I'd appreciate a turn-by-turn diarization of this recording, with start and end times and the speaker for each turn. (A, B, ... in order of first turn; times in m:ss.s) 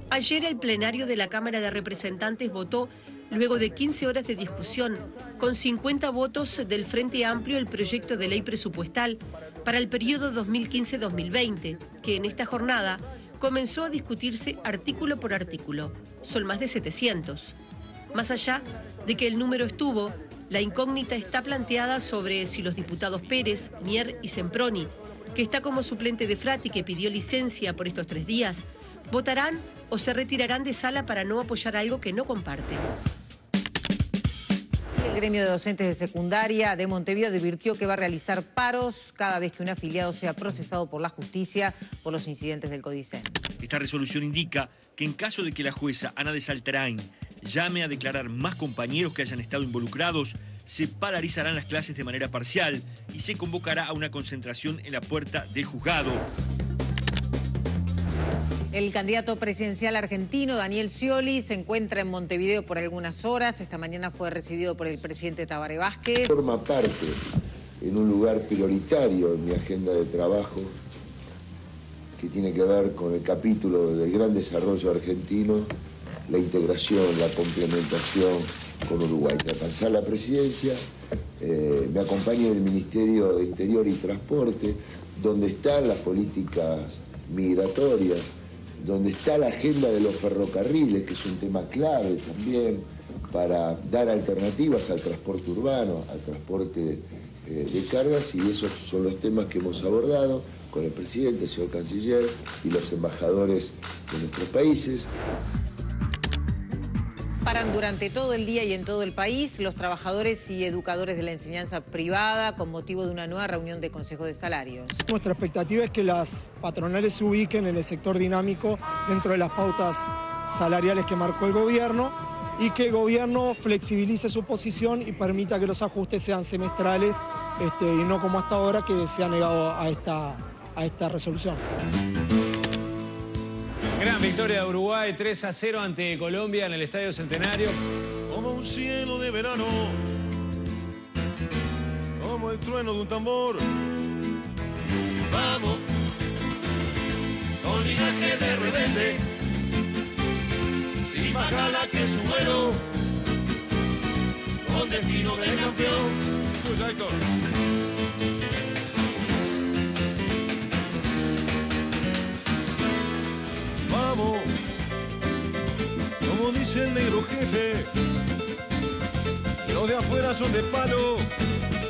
0:00.1-0:17.6 A
0:18.1-0:32.9 A
0:35.0-0:43.3 B
0:43.6-0:56.2 C
0:58.7-1:06.3 B
1:06.3-1:07.2 D
1:07.8-1:10.8 D
1:12.2-1:15.7 D
1:16.3-1:20.9 D
1:21.4-1:28.3 D
1:28.8-1:45.1 D
1:47.4-1:55.0 B
1:55.1-2:11.6 E
2:14.0-2:17.8 F
2:18.3-2:20.0 G
2:22.2-2:23.7 G
2:25.3-2:25.8 G
2:27.6-2:29.2 G
2:31.1-2:32.8 G
2:34.6-2:37.2 G
2:43.9-2:44.5 G
2:46.2-2:47.9 G
2:49.6-2:51.3 G